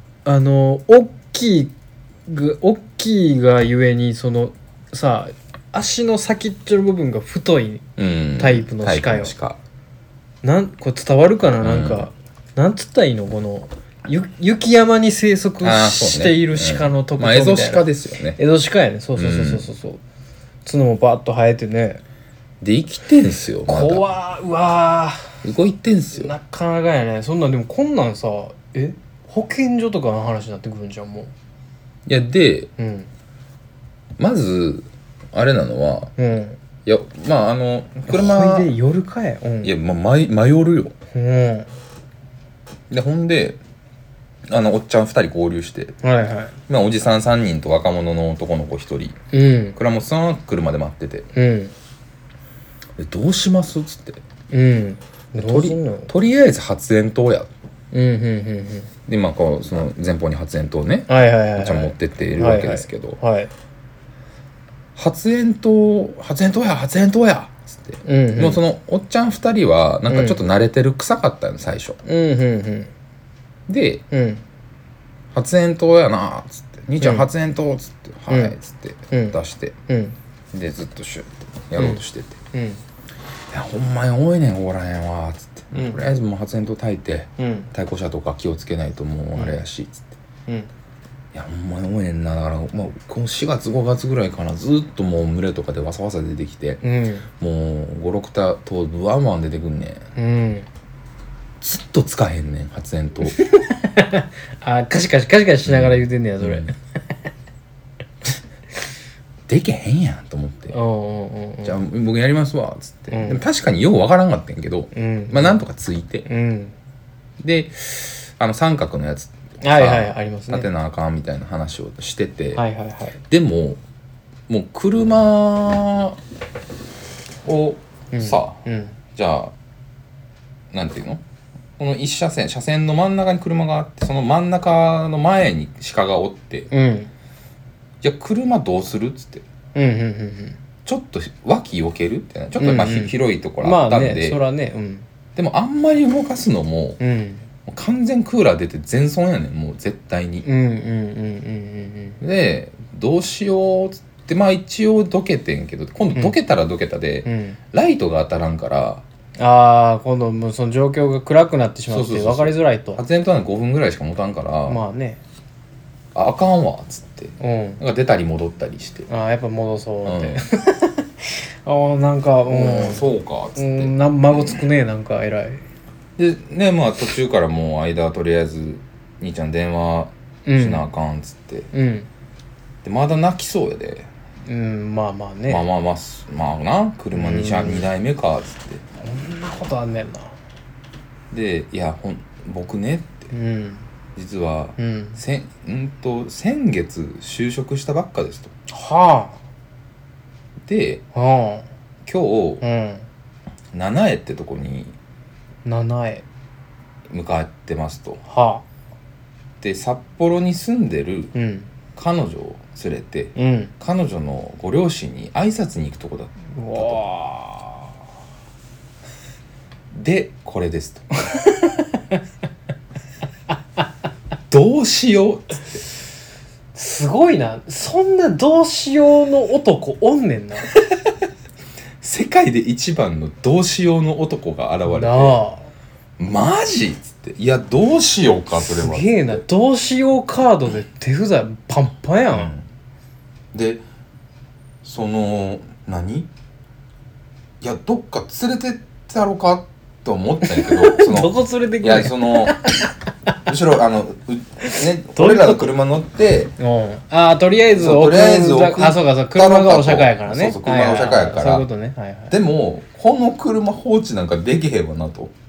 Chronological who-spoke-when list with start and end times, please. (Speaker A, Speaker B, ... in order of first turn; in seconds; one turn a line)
Speaker A: 0.2-1.7
Speaker A: 2.3-7.9
Speaker B: 8.0-9.6
Speaker A: 8.4-9.3
Speaker A: 10.4-20.0
Speaker B: 11.6-12.1
Speaker B: 15.6-18.4
Speaker B: 19.2-19.7
Speaker A: 20.6-22.0
Speaker B: 22.6-24.0
Speaker A: 23.7-25.4
Speaker B: 25.4-26.3
Speaker A: 26.1-31.3
Speaker B: 32.1-32.7
Speaker A: 32.8-33.1
Speaker B: 34.2-36.1
Speaker A: 36.2-36.6
Speaker B: 36.9-38.7
Speaker A: 38.1-39.7
Speaker B: 39.6-40.9
Speaker A: 41.1-41.7
Speaker B: 42.9-43.6
Speaker B: 44.5-46.0
Speaker A: 46.0-46.5
Speaker B: 46.7-49.2
Speaker A: 49.3-49.8
Speaker B: 49.8-51.3
Speaker A: 51.3-51.7
Speaker B: 53.0-54.2
Speaker A: 54.5-56.1
Speaker B: 55.4-57.5
Speaker A: 57.9-58.9
Speaker B: 59.1-63.2
Speaker A: 61.1-63.5
Speaker B: 65.0-72.0
Speaker A: 68.0-68.6
Speaker A: 70.1-70.4
Speaker A: 72.0-72.9
Speaker B: 73.7-74.0
Speaker A: 74.1-74.4
Speaker B: 75.3-79.8
Speaker A: 77.0-77.3
Speaker A: 78.3-78.6
Speaker A: 79.1-80.2
Speaker B: 80.5-82.4
Speaker A: 81.8-82.8
Speaker B: 83.5-90.1
Speaker A: 85.7-86.0
Speaker A: 87.4-87.7
Speaker A: 89.4-89.6
Speaker B: 91.3-96.8
Speaker A: 96.8-97.3
Speaker B: 97.4-100.0
Speaker A: 100.2-100.7
Speaker B: 101.6-103.4
Speaker A: 103.3-106.8
Speaker B: 105.7-106.7
Speaker B: 109.5-110.8
Speaker A: 110.7-111.8
Speaker B: 111.6-116.3
Speaker A: 113.1-113.4
Speaker A: 114.9-115.6
Speaker A: 116.3-116.8
Speaker B: 117.4-122.6
Speaker A: 119.6-120.7
Speaker A: 122.5-123.2
Speaker B: 123.3-123.8
Speaker B: 124.5-126.2
Speaker B: 127.4-128.6
Speaker A: 128.1-129.0
Speaker B: 129.1-129.5
Speaker B: 130.7-131.2
Speaker B: 131.8-136.7
Speaker A: 136.7-137.1
Speaker B: 138.0-139.5
Speaker A: 139.8-140.6
Speaker B: 140.8-144.4
Speaker A: 142.6-145.1
Speaker B: 145.4-147.0
Speaker A: 147.0-147.5
Speaker B: 147.7-150.5
Speaker A: 150.4-152.2
Speaker B: 152.2-159.0
Speaker A: 157.2-157.6
Speaker A: 159.4-163.0
Speaker B: 161.9-164.8
Speaker A: 164.7-165.2
Speaker B: 166.1-169.1
Speaker A: 167.4-167.8
Speaker A: 169.1-175.7
Speaker B: 170.1-170.4
Speaker B: 172.5-174.6
Speaker B: 176.2-181.7
Speaker A: 180.4-180.9
Speaker A: 181.7-182.1
Speaker B: 182.8-184.1
Speaker A: 184.4-185.6
Speaker B: 185.5-188.8
Speaker A: 187.1-187.9
Speaker A: 189.0-190.3
Speaker B: 191.3-193.3
Speaker A: 193.3-193.9
Speaker B: 194.2-198.5
Speaker A: 194.8-195.2
Speaker A: 198.7-199.4
Speaker B: 200.6-201.0
Speaker A: 201.1-201.7
Speaker B: 202.1-202.6
Speaker A: 202.6-203.1
Speaker B: 203.7-204.9
Speaker A: 205.7-206.2
Speaker B: 207.1-208.2
Speaker A: 208.2-208.7
Speaker B: 209.6-211.3
Speaker A: 211.3-211.7
Speaker B: 212.0-217.0
Speaker A: 213.3-213.7
Speaker A: 216.5-217.9
Speaker B: 219.9-221.1
Speaker A: 221.4-222.2
Speaker B: 224.5-225.8
Speaker A: 226.8-230.7
Speaker B: 230.8-231.0
Speaker B: 232.0-235.4
Speaker A: 234.9-235.7
Speaker B: 236.2-239.4
Speaker A: 238.5-242.5
Speaker B: 242.3-242.7
Speaker B: 243.5-243.8
Speaker B: 244.8-246.3
Speaker B: 247.6-252.6
Speaker A: 250.5-252.9
Speaker B: 253.5-256.5
Speaker A: 254.6-255.7
Speaker A: 256.6-262.4
Speaker B: 257.7-261.7
Speaker B: 262.3-265.3